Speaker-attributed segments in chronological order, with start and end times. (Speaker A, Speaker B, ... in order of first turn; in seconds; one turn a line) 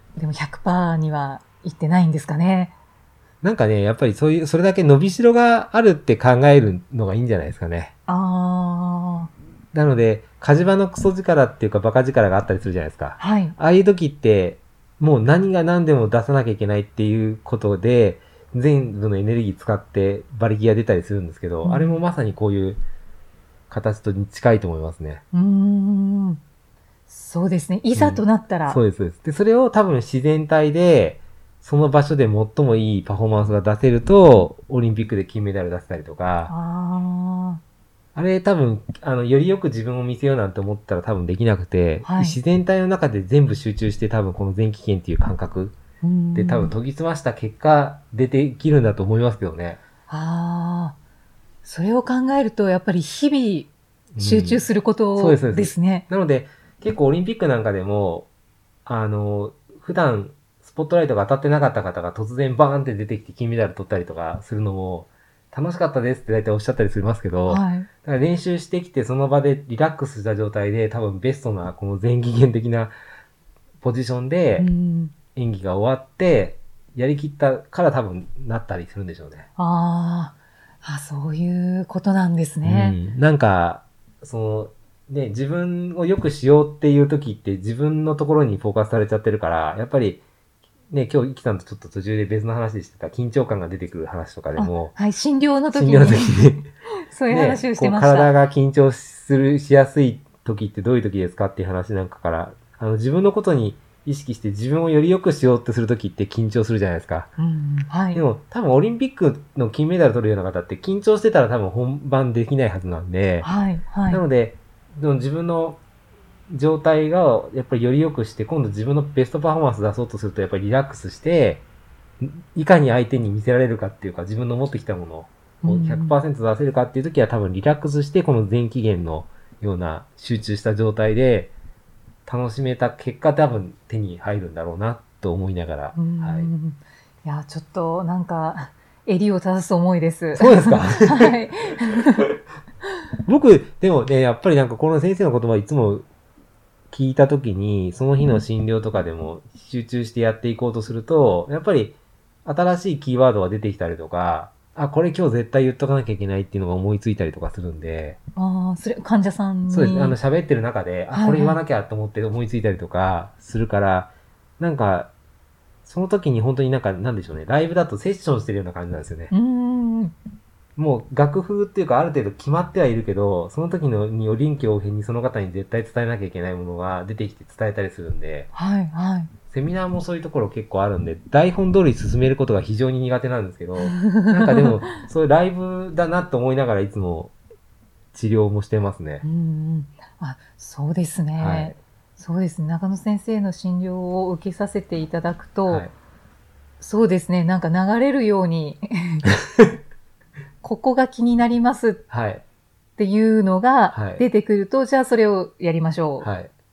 Speaker A: 0.2-2.7
Speaker B: 3.4-7.9
Speaker A: 8.1-9.3
Speaker B: 9.7-22.8
Speaker A: 13.2-13.6
Speaker A: 21.6-22.0
Speaker B: 23.7-25.2
Speaker A: 25.3-26.4
Speaker A: 27.1-28.8
Speaker B: 27.9-36.5
Speaker A: 36.5-37.6
Speaker B: 38.1-45.8
Speaker A: 42.0-42.4
Speaker A: 46.0-46.8
Speaker B: 46.4-49.8
Speaker A: 50.1-51.0
Speaker A: 51.6-56.1
Speaker B: 54.1-58.3
Speaker B: 58.9-72.9
Speaker A: 67.5-67.9
Speaker B: 73.8-74.7
Speaker A: 74.6-75.1
Speaker B: 75.3-79.5
Speaker A: 79.6-83.0
Speaker B: 82.6-90.2
Speaker B: 90.9-94.9
Speaker A: 94.6-96.4
Speaker B: 95.7-96.7
Speaker A: 97.1-98.4
Speaker B: 97.3-107.3
Speaker A: 107.4-108.2
Speaker B: 108.1-113.5
Speaker A: 113.4-114.2
Speaker B: 114.1-115.8
Speaker B: 116.5-121.7
Speaker B: 122.2-131.5
Speaker A: 125.6-126.2
Speaker B: 132.2-136.5
Speaker A: 135.9-142.3
Speaker B: 140.3-141.4
Speaker B: 143.2-146.1
Speaker B: 146.9-158.2
Speaker A: 158.4-160.2
Speaker B: 159.7-165.1
Speaker A: 161.1-161.6
Speaker B: 165.8-169.3
Speaker A: 169.3-170.2
Speaker B: 170.8-178.5
Speaker A: 178.5-179.3
Speaker B: 179.5-187.3
Speaker A: 183.8-184.9
Speaker B: 188.1-189.2
Speaker A: 189.2-195.9
Speaker B: 191.4-191.7
Speaker B: 195.7-195.9
Speaker A: 196.8-199.3
Speaker A: 200.6-202.0
Speaker B: 202.1-202.4
Speaker A: 203.0-206.3
Speaker B: 203.9-204.2
Speaker B: 206.2-206.5